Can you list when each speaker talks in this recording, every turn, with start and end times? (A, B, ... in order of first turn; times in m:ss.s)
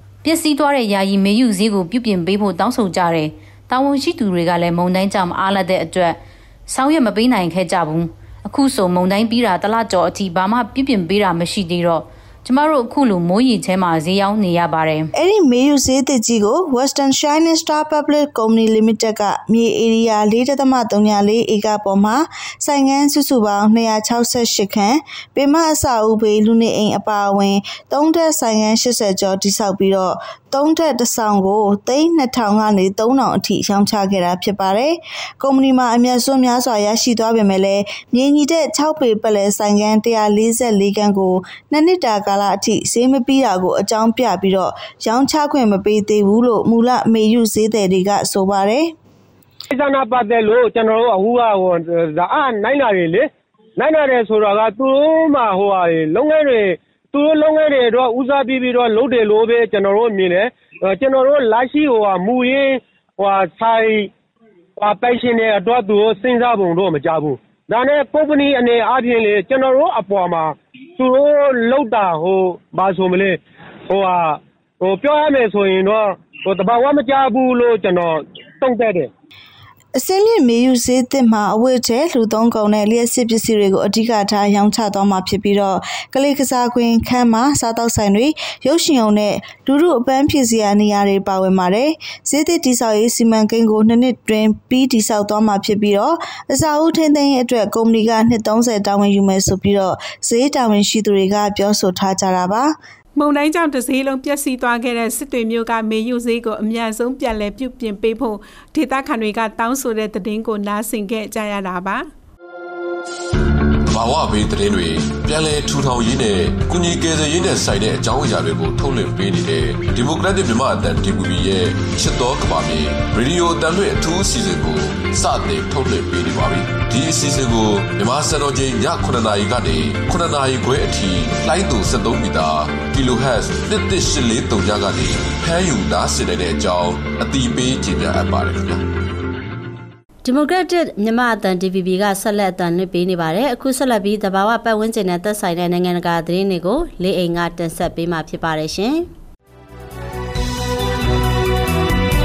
0:00.2-0:15.1 A
0:15.1-0:48.9 B
0:49.7-1:04.1 C
1:04.8-1:13.4 C
1:13.9-1:19.1 C
1:20.0-1:42.8 B
1:43.2-1:52.1 D
1:53.9-2:18.8 E
2:20.2-2:29.1 F